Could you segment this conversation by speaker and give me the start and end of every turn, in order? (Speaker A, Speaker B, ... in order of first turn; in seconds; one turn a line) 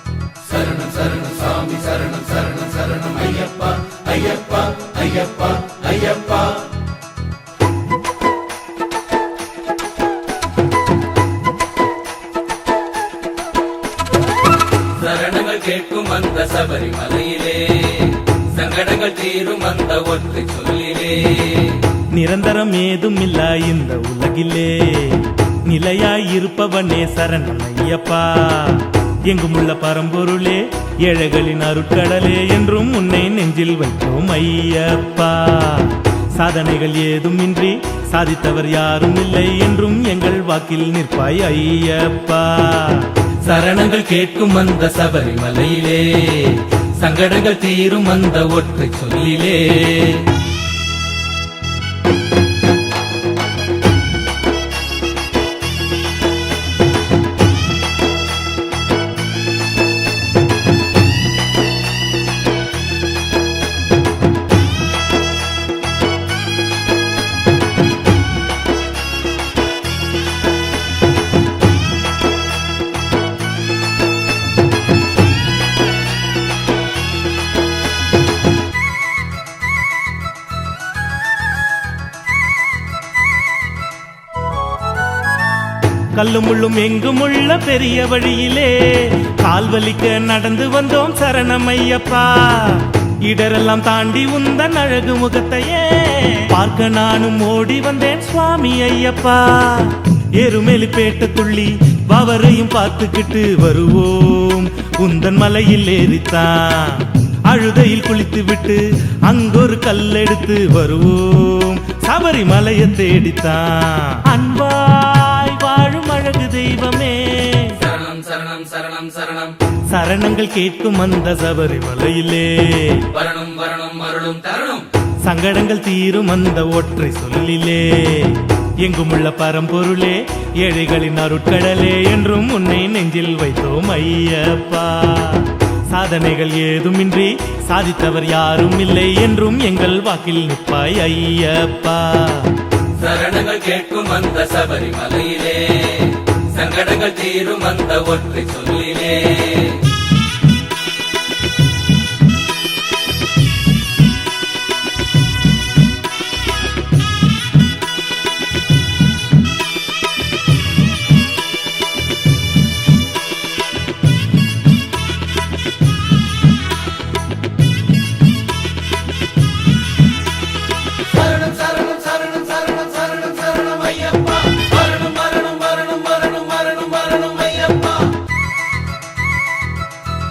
Speaker A: 0.4-6.7
Speaker A: 14.9-22.0
Speaker B: 22.1-43.3
Speaker A: 43.4-50.4
Speaker B: 86.1-117.8
Speaker A: 117.8-119.6
Speaker B: 119.9-123.1
Speaker A: 123.1-124.9
Speaker B: 125.2-142.6
Speaker A: 143.0-149.9
Speaker A: 171.1-178.2